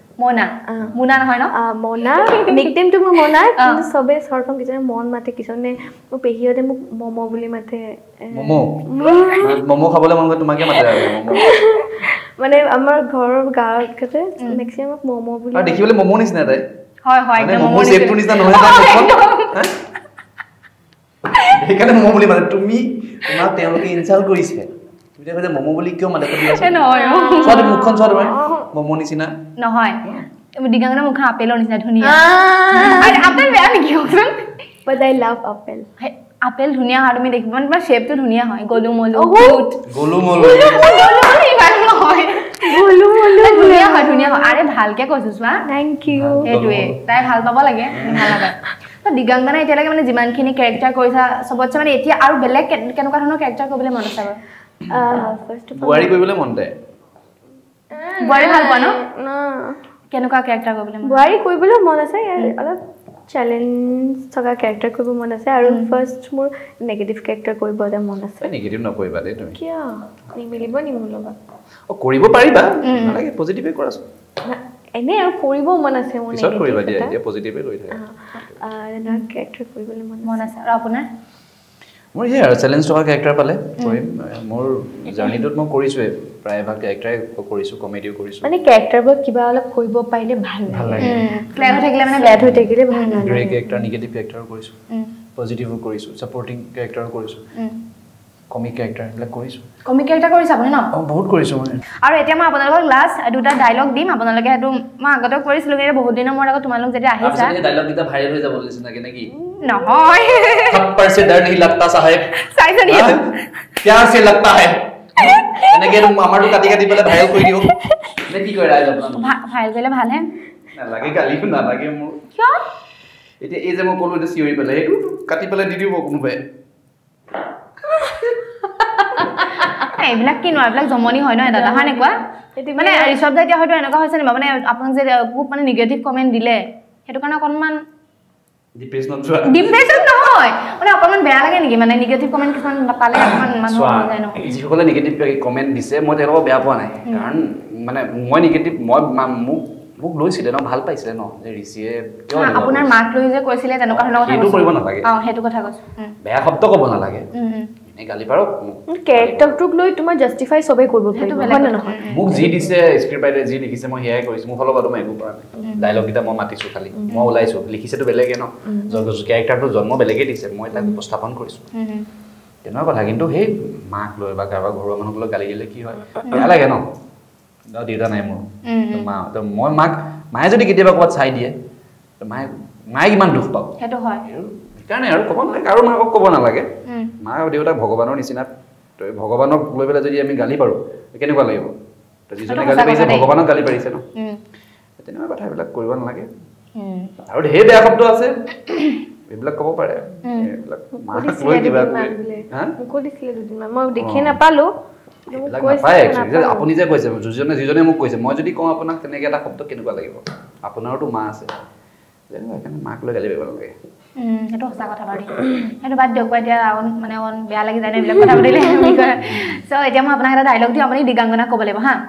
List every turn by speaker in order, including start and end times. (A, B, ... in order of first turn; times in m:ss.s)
0:00.2-0:01.5 A
0:00.7-0:01.0 B
0:01.5-0:09.6 B
0:02.3-0:02.7 A
0:08.3-0:11.6 C
0:11.3-0:15.8 B
0:15.5-0:16.6 C
0:17.1-0:19.6 A
0:17.4-0:19.8 C
0:21.4-0:26.8 C
0:26.4-0:27.7 A
0:26.9-0:28.7 B
0:27.4-0:29.4 C
0:29.6-0:30.0 A
0:30.6-0:34.5 A
0:32.0-0:33.5 B
0:34.9-0:35.9 B
0:36.0-0:39.8 A
0:39.2-0:39.8 B
0:39.9-0:41.1 C
0:40.4-0:45.6 A
0:40.5-0:41.3 B
0:42.6-0:44.6 B
0:45.6-0:46.5 B
0:46.1-0:47.0 C
0:46.4-0:54.4 A
0:47.9-0:48.5 C
0:54.9-0:56.2 B
0:55.8-0:56.8 C
0:57.9-0:59.8 B
0:58.2-0:59.0 A
1:00.1-1:01.3 A
1:01.0-1:08.5 B
1:05.6-1:05.9 A
1:08.4-1:09.6 C
1:09.6-1:11.4 B
1:11.9-1:14.0 C
1:12.8-1:13.2 A
1:14.4-1:17.2 B
1:16.3-1:18.6 C
1:17.9-1:20.5 B
1:20.2-1:21.1 A
1:22.1-1:28.5 C
1:28.4-1:33.7 B
1:30.7-1:31.3 C
1:31.0-1:33.3 A
1:32.3-1:34.8 C
1:35.4-1:37.4 C
1:37.6-1:37.8 A
1:38.5-1:39.7 C
1:39.8-1:40.9 A
1:40.9-1:41.8 C
1:42.0-1:47.6 A
1:47.2-1:49.3 C
1:49.6-1:50.8 A
1:50.7-1:52.3 C
1:52.4-1:53.3 A
1:52.8-1:53.3 C
1:53.8-1:57.7 C
1:58.3-1:59.3 C
1:59.2-2:00.3 A
2:00.7-2:02.2 C
2:02.4-2:02.6 A
2:03.4-2:06.5 C
2:09.8-2:12.2 A
2:11.5-2:13.2 B
2:12.8-2:17.8 A
2:18.8-2:19.8 C
2:19.5-2:24.4 A
2:23.2-2:33.0 C
2:32.4-2:36.2 A
2:33.9-2:35.1 C
2:36.2-2:37.3 C
2:37.3-2:37.7 A
2:37.8-2:39.6 C
2:38.9-2:42.0 B
2:41.2-2:42.5 A
2:42.1-2:51.7 C
2:46.9-2:47.3 B
2:48.7-2:49.0 B
2:51.8-2:52.1 A
2:52.6-2:56.9 C
2:56.3-2:56.5 A
2:57.7-3:01.6 C
2:58.7-2:59.1 A
3:02.2-3:03.8 C
3:03.8-3:04.3 A
3:04.3-3:11.8 C
3:06.9-3:07.1 A
3:12.3-3:14.1 C
3:12.5-3:13.3 A
3:15.0-3:16.3 C
3:16.8-3:17.1 A
3:17.2-3:18.5 C
3:19.3-3:22.7 C
3:20.2-3:20.5 A
3:21.0-3:24.7 B
3:24.0-3:24.4 C
3:25.3-3:26.7 B
3:25.4-3:31.5 C
3:32.3-3:33.8 C
3:34.2-3:42.0 A
3:39.2-3:39.6 C